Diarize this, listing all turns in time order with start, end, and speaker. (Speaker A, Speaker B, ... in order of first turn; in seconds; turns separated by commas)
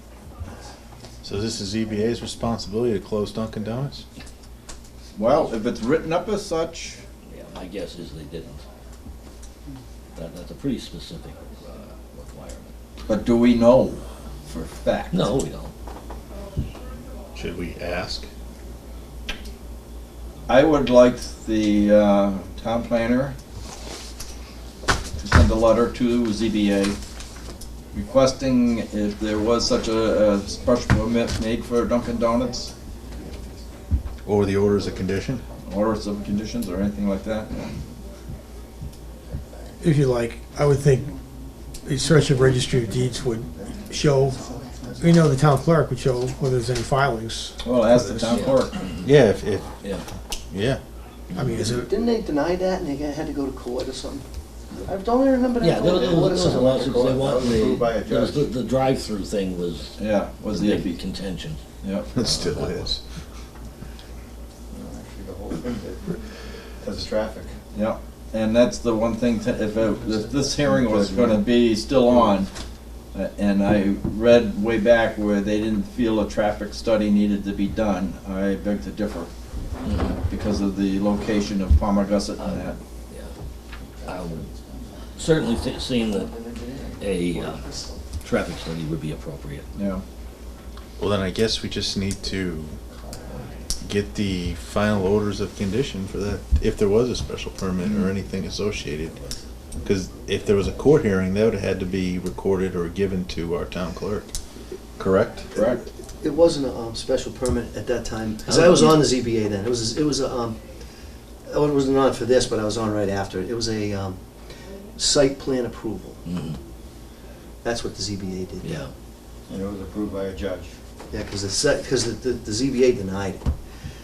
Speaker A: 1.2-4.0, Speaker B: 5.1-7.0, Speaker C: 7.3-8.6, Speaker C: 10.2-12.7, Speaker B: 13.1-15.3, Speaker C: 15.1-15.7, Speaker A: 17.3-18.3, Speaker B: 20.5-23.4, Speaker B: 25.2-27.0, Speaker B: 27.9-32.7, Speaker A: 34.2-35.4, Speaker B: 35.6-37.7, Speaker D: 39.8-41.1, Speaker D: 41.8-44.4, Speaker E: 43.5-45.2, Speaker D: 45.0-48.4, Speaker B: 47.6-48.8, Speaker C: 48.3-49.1, Speaker A: 49.0-49.8, Speaker A: 50.5-50.8, Speaker D: 51.4-51.9, Speaker E: 51.6-56.8, Speaker C: 55.6-60.0, Speaker F: 55.8-58.5, Speaker B: 60.0-61.0, Speaker C: 60.5-61.6, Speaker B: 61.8-62.1, Speaker A: 62.1-63.0, Speaker C: 62.2-62.8, Speaker F: 64.7-66.2, Speaker F: 66.8-67.6, Speaker B: 67.7-72.5, Speaker F: 70.6-71.5, Speaker B: 73.1-79.3, Speaker C: 79.8-80.2, Speaker B: 80.3-82.8, Speaker C: 84.0-84.5, Speaker C: 85.2-87.6, Speaker E: 86.1-88.0, Speaker C: 88.2-89.7, Speaker B: 89.8-90.0, Speaker A: 91.0-92.8, Speaker E: 93.0-93.5, Speaker A: 93.8-99.2, Speaker A: 99.8-104.3, Speaker A: 105.0-105.5, Speaker B: 105.5-105.8, Speaker E: 106.2-110.6, Speaker C: 108.5-109.1, Speaker E: 111.5-116.2, Speaker C: 116.3-116.6, Speaker E: 117.6-118.9, Speaker C: 118.6-118.9, Speaker F: 119.5-120.8, Speaker E: 121.1-123.9